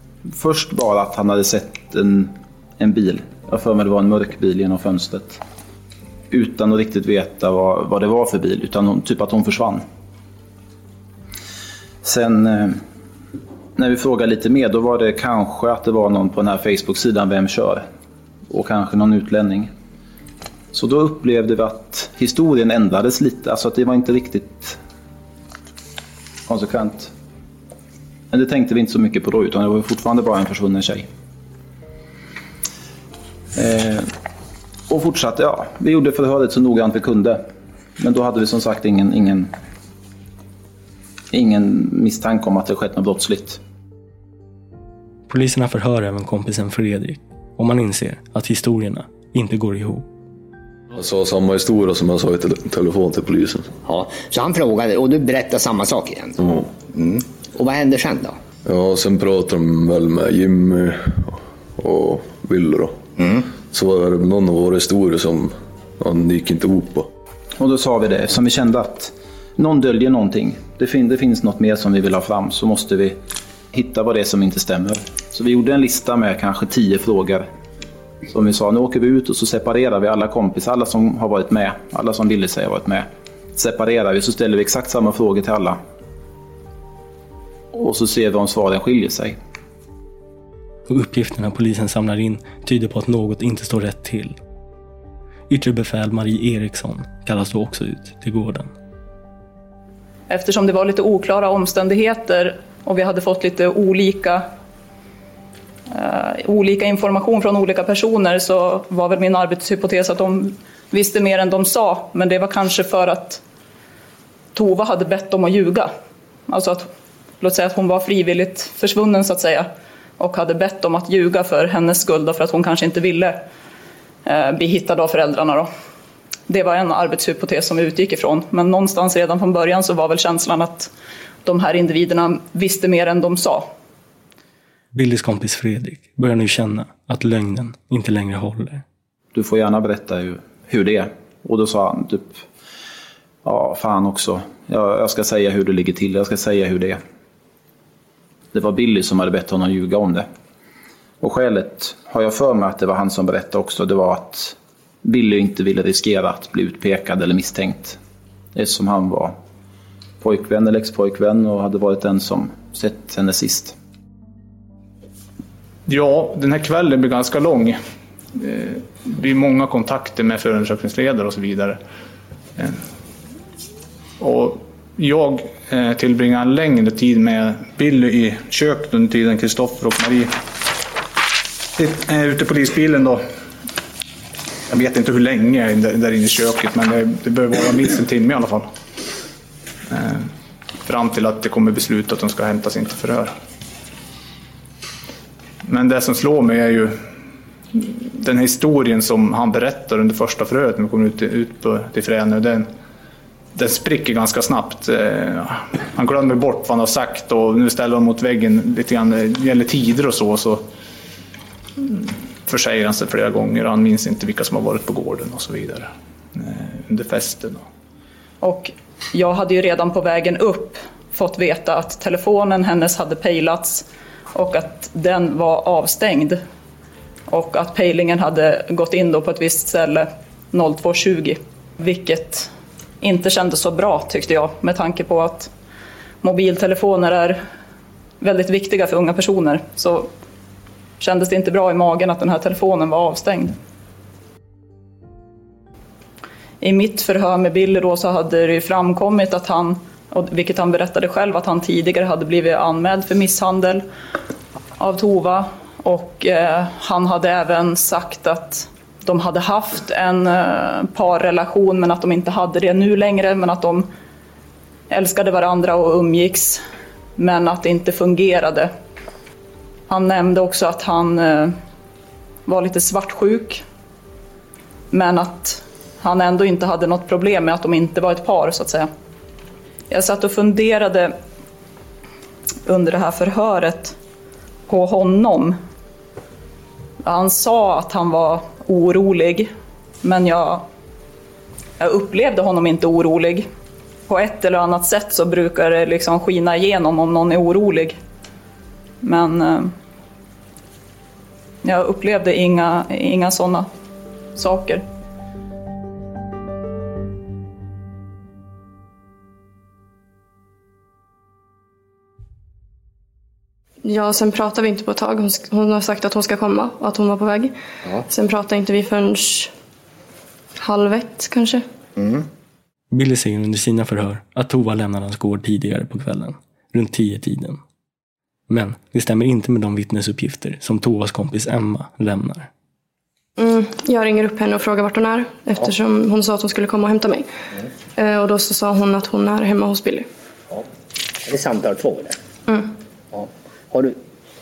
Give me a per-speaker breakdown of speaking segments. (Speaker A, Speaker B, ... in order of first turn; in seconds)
Speaker A: 0.3-5.4, 6.3-9.8, 12.0-12.8, 13.8-17.9, 18.5-19.7, 20.7-24.8, 26.5-27.1, 28.3-31.1, 33.5-34.1, 34.9-37.4, 38.0-39.5, 41.3-43.6, 67.6-73.2, 73.7-77.5, 78.3-85.8, 87.7-89.4, 139.3-142.4, 143.4-147.0, 148.5-150.3, 151.2-158.0, 158.6-159.3, 160.2-163.8
Speaker B: 45.3-50.0, 90.9-94.4, 95.5-98.7, 134.9-138.8, 322.9-327.6, 328.5-332.5
Speaker C: 50.9-53.7, 56.4-56.7, 58.6-63.0, 63.7-67.1
Speaker D: 53.9-56.4, 56.9-58.4, 63.2-63.5, 322.0-322.2, 341.3-342.2, 343.1-343.9
Speaker E: 100.3-104.5, 105.9-113.4, 114.5-115.9, 116.5-116.9, 117.4-123.4, 124.3-125.7, 126.5-130.9, 131.4-133.7, 218.4-226.4, 227.3-232.5, 233.0-235.5, 236.2-237.4, 238.2-240.1, 241.0-243.6, 246.6-253.8, 254.8-263.9, 264.9-266.6, 267.2-268.7, 269.9-271.6, 272.5-273.6, 274.9-278.9, 279.9-281.2, 282.7-283.9, 284.7-285.6, 287.0-289.5, 290.0-290.7, 291.8-293.5, 294.1-298.0, 299.0-299.7, 301.6-303.7, 304.4-304.8
Speaker F: 165.9-167.8, 168.4-171.8, 174.2-180.3, 181.8-183.2, 184.7-188.7, 189.9-190.3, 190.9-193.3, 195.7-197.0, 197.7-202.7, 203.6-210.7, 211.8-217.7
Speaker G: 313.9-317.5, 318.1-319.5, 320.6-321.6, 333.4-337.3, 338.0-340.1